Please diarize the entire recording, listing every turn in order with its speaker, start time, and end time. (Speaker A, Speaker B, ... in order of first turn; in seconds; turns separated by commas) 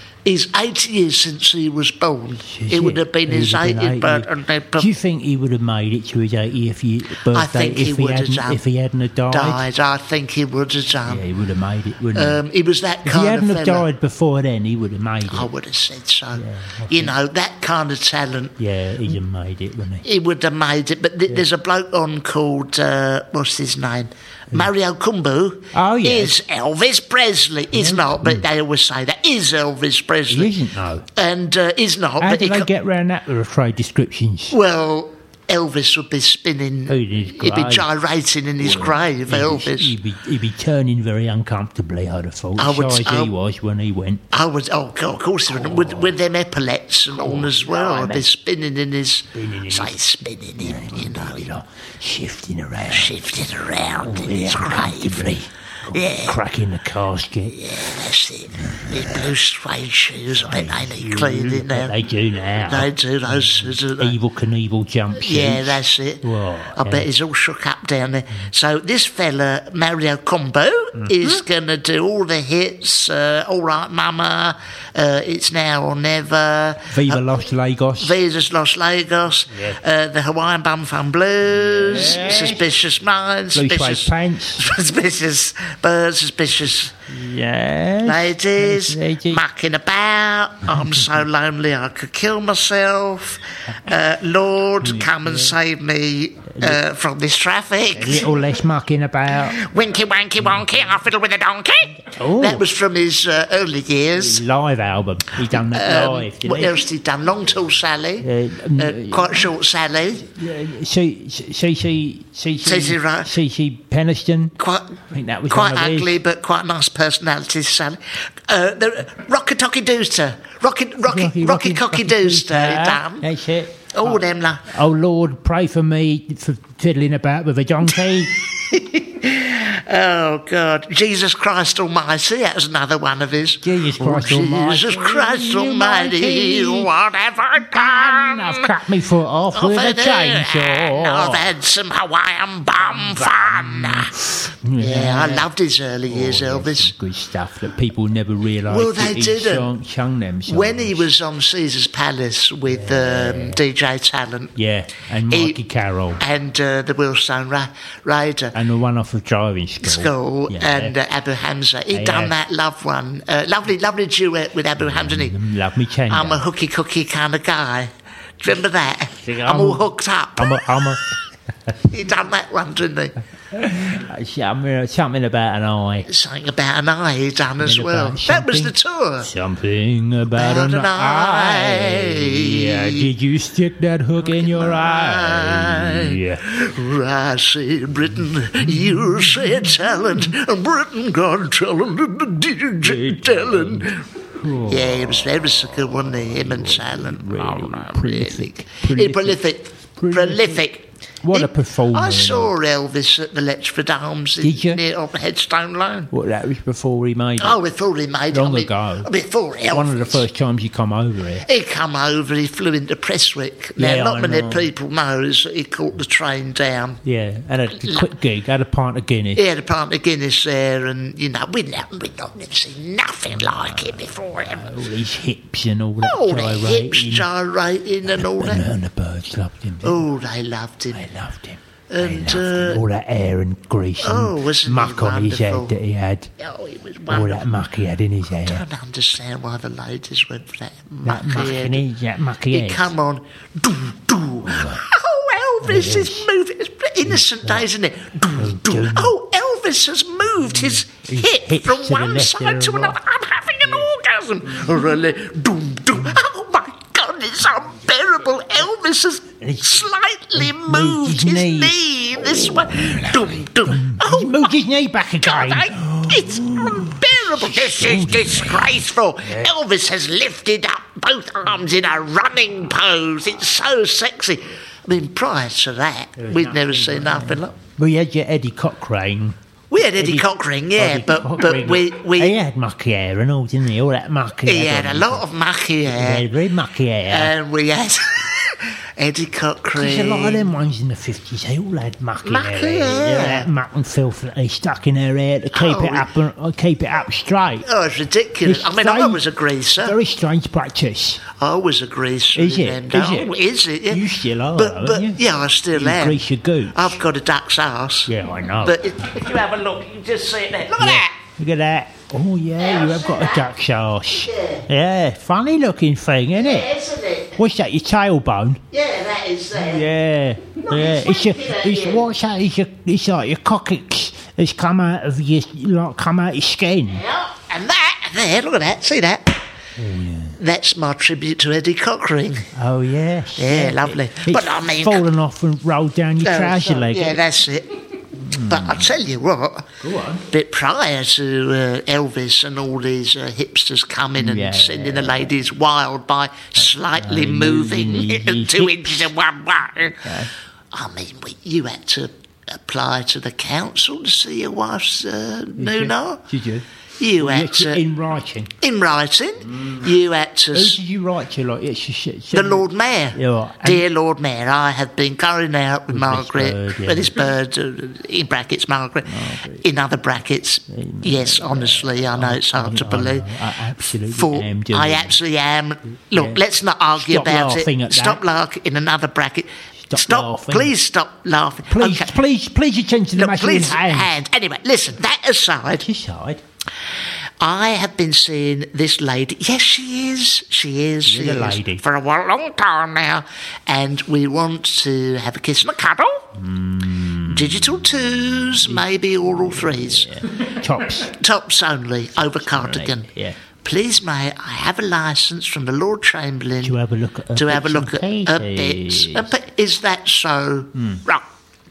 Speaker A: 0.2-4.9, Speaker B: 2.4-9.6, Speaker A: 7.2-8.6, Speaker A: 9.3-11.2, Speaker B: 11.0-12.4, Speaker A: 12.1-13.9, Speaker B: 13.0-15.5, Speaker A: 15.3-18.5, Speaker B: 16.3-17.1, Speaker B: 18.6-20.1, Speaker A: 20.0-30.5, Speaker B: 25.7-26.4, Speaker B: 27.7-28.4, Speaker B: 30.3-31.1, Speaker A: 31.1-32.7, Speaker B: 32.2-34.5, Speaker A: 34.5-39.9, Speaker B: 36.9-37.9, Speaker B: 38.6-44.2, Speaker A: 42.6-43.3, Speaker A: 44.3-51.5, Speaker B: 45.5-46.1, Speaker B: 47.1-48.3, Speaker B: 49.3-50.0, Speaker B: 50.6-53.2, Speaker A: 52.9-56.4, Speaker B: 54.0-57.6, Speaker A: 57.5-61.9, Speaker B: 58.6-59.3, Speaker B: 60.4-67.1, Speaker A: 62.6-64.2, Speaker A: 65.1-77.4, Speaker B: 70.9-71.4, Speaker B: 76.9-78.2, Speaker A: 78.0-87.0, Speaker B: 79.5-79.8, Speaker B: 81.7-82.7, Speaker B: 83.5-84.7, Speaker B: 87.1-89.4, Speaker A: 88.0-98.4, Speaker B: 94.8-95.5, Speaker B: 96.5-96.8, Speaker B: 97.9-99.6, Speaker A: 99.4-104.4, Speaker B: 102.0-102.6, Speaker B: 104.2-106.8, Speaker A: 105.4-110.3, Speaker B: 108.2-109.5, Speaker B: 110.3-114.5, Speaker A: 112.6-113.3, Speaker A: 114.6-123.3, Speaker B: 115.1-116.2, Speaker B: 121.0-128.4, Speaker A: 123.9-124.7, Speaker A: 127.9-138.7, Speaker B: 133.6-136.9, Speaker B: 137.7-141.5, Speaker A: 139.5-144.1, Speaker B: 142.9-145.5, Speaker A: 144.8-146.9, Speaker B: 146.1-151.1, Speaker A: 148.7-149.7, Speaker A: 150.5-154.6, Speaker B: 152.7-153.6, Speaker B: 154.6-156.2, Speaker A: 155.3-155.6, Speaker A: 156.2-158.5, Speaker B: 158.5-160.9, Speaker A: 159.8-165.3, Speaker B: 161.9-162.3, Speaker B: 164.8-166.4, Speaker A: 166.1-170.7, Speaker B: 169.2-171.1, Speaker A: 171.9-173.1, Speaker B: 173.5-176.1, Speaker A: 176.1-179.3, Speaker B: 177.6-186.4, Speaker A: 180.3-183.0, Speaker A: 184.2-194.1, Speaker B: 188.6-189.7, Speaker B: 192.8-195.0, Speaker A: 194.7-206.1, Speaker B: 196.4-199.4, Speaker B: 200.0-200.6, Speaker B: 201.2-202.5, Speaker B: 204.4-204.8, Speaker B: 206.1-207.6, Speaker A: 207.4-210.2, Speaker B: 208.3-209.1, Speaker B: 209.7-211.4, Speaker A: 211.4-217.0, Speaker B: 213.8-214.7, Speaker B: 217.0-219.4, Speaker A: 217.8-218.1, Speaker A: 219.3-224.7, Speaker B: 223.4-227.3, Speaker A: 226.0-228.7, Speaker B: 228.1-230.1, Speaker A: 229.8-231.0, Speaker B: 230.9-236.3, Speaker A: 231.9-232.8, Speaker A: 234.0-235.8, Speaker A: 236.4-237.5, Speaker B: 237.1-238.6, Speaker A: 238.4-241.8, Speaker B: 241.0-242.9, Speaker A: 242.5-264.5, Speaker B: 244.4-244.8, Speaker B: 245.6-246.3, Speaker B: 247.1-247.7, Speaker B: 248.3-249.1, Speaker B: 250.5-253.0, Speaker B: 259.4-261.8, Speaker B: 262.4-269.5, Speaker A: 265.2-277.6, Speaker B: 276.2-279.4, Speaker A: 279.7-282.4, Speaker B: 280.0-285.2, Speaker A: 284.4-286.3, Speaker B: 285.9-287.3, Speaker A: 287.1-290.5, Speaker B: 289.8-297.6, Speaker A: 292.2-293.5, Speaker A: 295.5-296.1, Speaker A: 297.6-300.0, Speaker B: 298.4-299.2, Speaker B: 299.8-301.2, Speaker A: 301.3-311.1, Speaker B: 302.3-303.3, Speaker B: 303.9-305.2, Speaker B: 305.7-307.0, Speaker B: 308.1-308.9, Speaker B: 310.8-316.7, Speaker A: 312.6-313.5, Speaker A: 314.1-314.6, Speaker A: 316.3-317.4, Speaker B: 317.4-318.6, Speaker A: 318.7-319.9, Speaker B: 319.5-327.0, Speaker A: 320.6-322.1, Speaker A: 326.9-329.4, Speaker B: 329.8-330.4, Speaker A: 330.4-332.5, Speaker B: 332.5-337.2, Speaker A: 333.4-335.1, Speaker A: 336.2-339.7, Speaker B: 338.2-338.9, Speaker B: 339.8-340.2, Speaker A: 340.3-350.0, Speaker B: 344.2-345.3, Speaker B: 346.6-349.1, Speaker B: 350.0-350.3, Speaker A: 350.7-356.2, Speaker B: 355.6-356.6, Speaker A: 357.0-357.8, Speaker B: 357.2-358.5, Speaker A: 358.6-360.8, Speaker B: 359.5-359.8, Speaker B: 360.5-363.9, Speaker A: 362.3-373.3, Speaker B: 365.9-367.2, Speaker B: 369.1-369.6, Speaker B: 370.7-375.2, Speaker A: 374.0-382.2, Speaker B: 376.1-376.4, Speaker B: 376.9-378.2, Speaker B: 379.9-380.7, Speaker B: 381.7-384.1, Speaker A: 383.1-385.9, Speaker B: 385.7-386.4, Speaker A: 387.4-396.2, Speaker B: 391.0-391.8, Speaker B: 396.4-401.1, Speaker A: 397.3-400.1, Speaker A: 401.0-403.1, Speaker B: 402.3-403.4, Speaker A: 403.6-406.8, Speaker B: 406.6-409.3, Speaker A: 407.3-411.2, Speaker B: 410.7-411.0